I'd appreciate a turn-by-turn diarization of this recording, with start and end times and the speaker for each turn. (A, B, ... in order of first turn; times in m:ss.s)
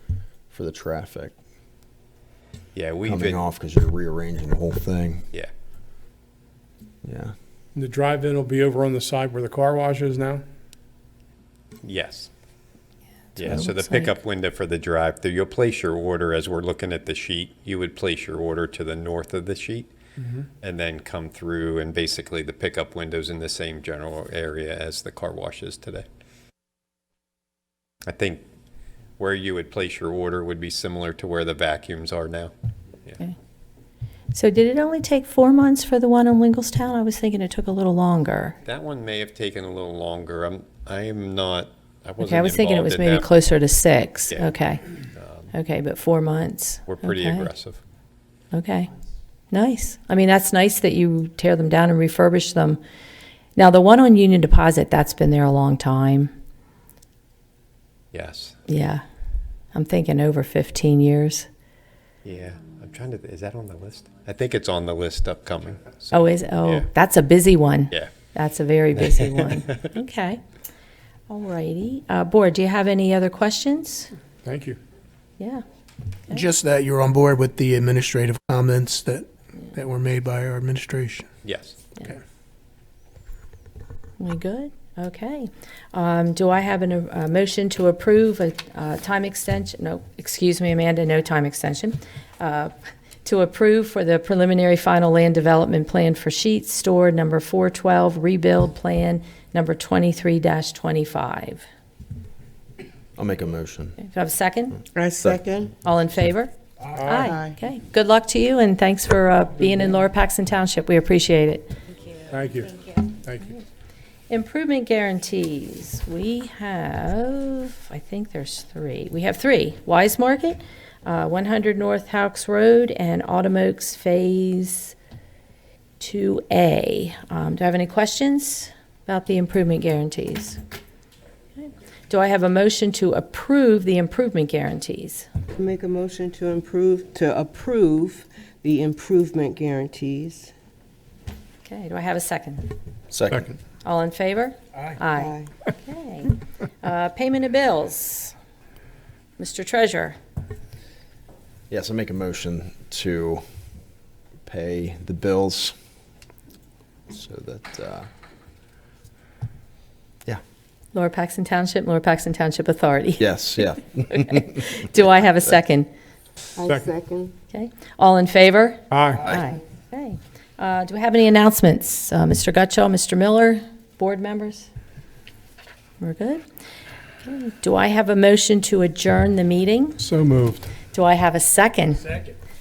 0:00.5-0:01.4 A
0:02.7-0:03.4 B
0:03.1-0:05.3 A
0:07.0-0:07.3 A
0:07.8-0:10.4 C
0:11.8-0:12.3 B
0:13.4-0:19.9 B
0:13.4-0:14.2 D
0:20.6-0:26.0 B
0:28.1-0:28.4 B
0:29.2-0:32.5 B
0:34.3-0:38.6 D
0:38.6-0:43.3 B
0:42.2-0:44.9 D
0:45.2-0:45.5 B
0:45.5-0:47.5 D
0:46.9-0:47.8 B
0:48.5-0:48.9 D
0:49.5-0:52.8 D
0:53.6-0:56.3 D
0:58.1-0:58.6 B
0:58.7-0:59.0 D
0:59.7-1:01.5 D
1:02.2-1:06.9 B
1:06.1-1:10.4 D
1:11.3-1:14.1 D
1:14.4-1:14.8 C
1:16.3-1:21.3 E
1:21.4-1:21.8 B
1:24.2-1:32.7 D
1:33.2-1:41.6 D
1:43.2-1:44.0 A
1:44.0-1:44.8 D
1:44.9-1:45.7 F
1:45.8-1:46.5 D
1:46.9-1:47.3 C
1:47.0-1:51.7 D
1:47.1-1:47.6 F
1:52.3-1:52.7 C
1:53.2-1:53.5 C
1:54.3-2:05.0 D
2:06.0-2:10.6 D
2:11.6-2:15.3 D
2:15.5-2:20.5 F
2:21.6-2:22.7 D
2:23.1-2:23.5 A
2:23.8-2:28.3 D
2:25.2-2:25.5 F
2:29.4-2:30.2 D
2:31.7-2:33.4 A
2:34.5-2:35.7 A
2:37.1-2:38.1 A
2:40.9-2:43.3 D
2:43.2-2:44.6 A
2:44.1-2:45.9 D
2:46.6-2:47.3 F
2:47.5-2:54.7 D
2:48.9-2:49.3 C
2:56.0-2:56.4 D
2:57.2-3:00.0 D
3:00.0-3:00.8 C
3:00.9-3:02.1 D